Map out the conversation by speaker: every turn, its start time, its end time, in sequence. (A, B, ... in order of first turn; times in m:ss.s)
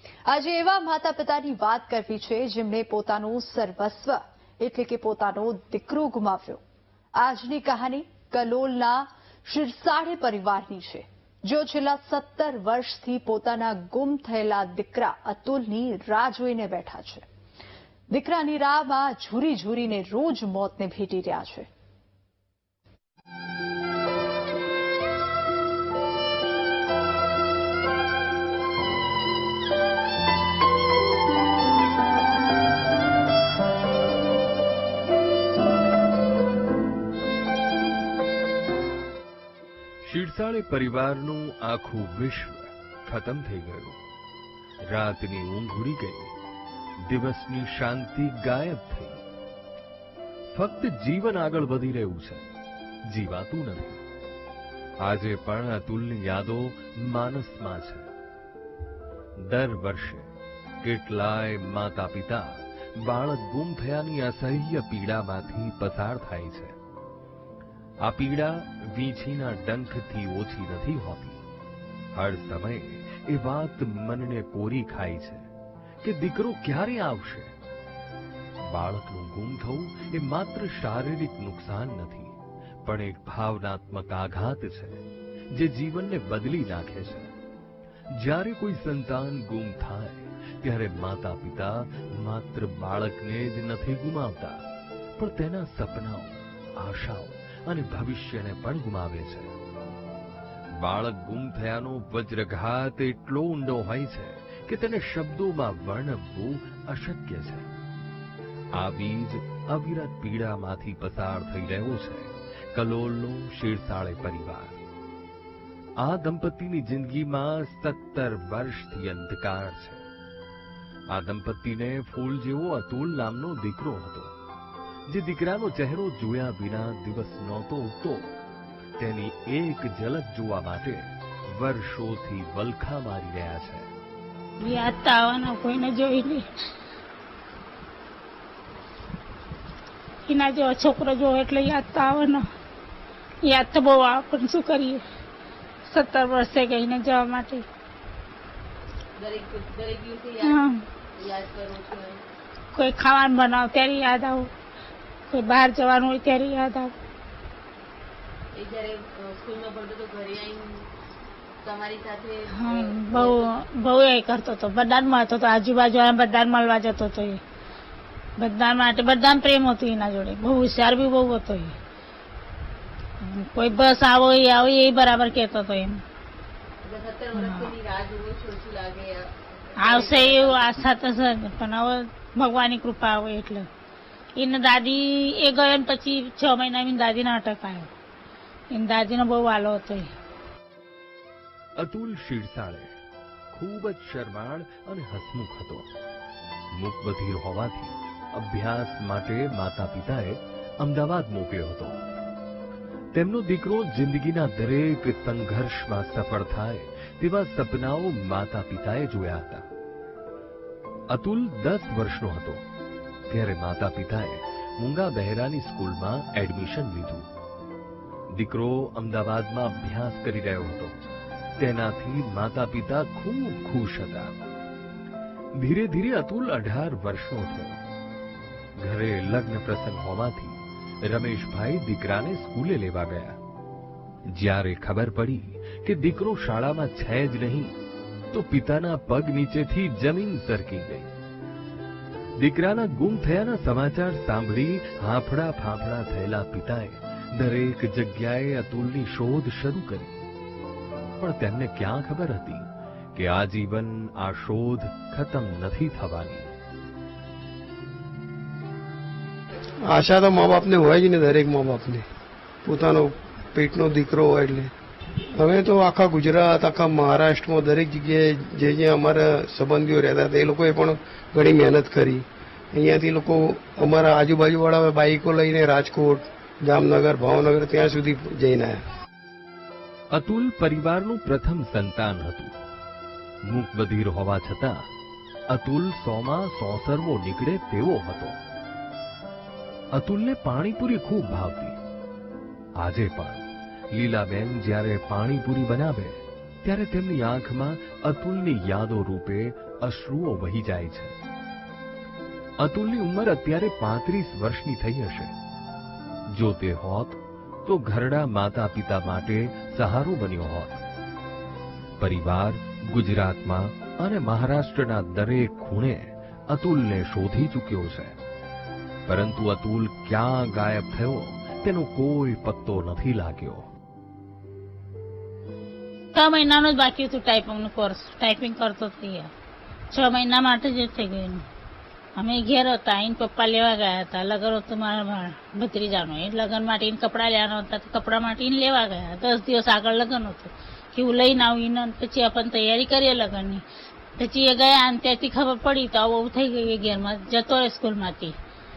0:00.3-0:06.6 A
0:07.2-0:17.3 A
0:18.1-0:21.7 A
0:40.0-0:44.0 B
0:44.9-0:46.3 B
0:47.0-0:49.2 B
0:50.5-0:52.5 B
0:53.1-0:54.0 B
0:55.0-0:58.1 B
0:59.4-1:00.3 B
1:00.8-1:06.8 B
1:08.0-1:11.4 B
1:12.2-1:15.5 B
1:16.0-1:17.5 B
1:18.6-1:27.3 B
1:28.2-1:34.6 B
1:35.2-1:39.6 B
1:40.8-1:47.7 B
1:48.8-1:54.8 B
1:56.0-2:00.1 B
2:01.1-2:04.3 B
2:05.1-2:08.3 B
2:09.0-2:13.9 B
2:14.6-2:16.4 C
2:20.3-2:22.4 C
2:23.4-2:25.0 C
2:25.9-2:27.7 C
2:29.2-2:32.2 D
2:30.4-2:30.8 C
2:32.7-2:34.5 C
2:35.3-2:37.0 C
2:38.6-2:40.9 D
2:41.6-2:43.6 D
2:42.6-2:47.4 C
2:48.4-2:51.8 C
2:53.2-2:56.0 C
2:56.8-3:00.7 D
2:57.4-2:57.7 C
2:59.8-3:03.7 C
3:04.4-3:07.9 C
3:08.7-3:10.1 C
3:11.8-3:12.9 B
3:13.5-3:15.9 B
3:16.7-3:22.0 B
3:23.1-3:29.7 B
3:31.1-3:32.6 B
3:33.3-3:37.3 B
3:38.4-3:41.0 B
3:41.6-3:44.4 B
3:45.6-3:47.8 B
3:48.8-3:53.4 B
3:54.3-3:57.8 B
3:58.3-4:01.1 B
4:02.4-4:10.2 B
4:11.2-4:16.5 B
4:19.9-4:22.1 E
4:22.6-4:24.7 E
4:25.4-4:38.9 E
4:40.2-4:42.6 B
4:43.5-4:44.9 B
4:45.5-4:48.4 B
4:50.0-4:51.8 B
4:52.8-5:01.2 B
5:02.6-5:05.4 B
5:06.3-5:10.8 B
5:12.0-5:18.2 B
5:19.1-5:23.7 B
5:26.1-5:29.3 C
5:29.9-5:31.5 C
5:32.2-5:43.6 C
5:44.2-5:48.4 C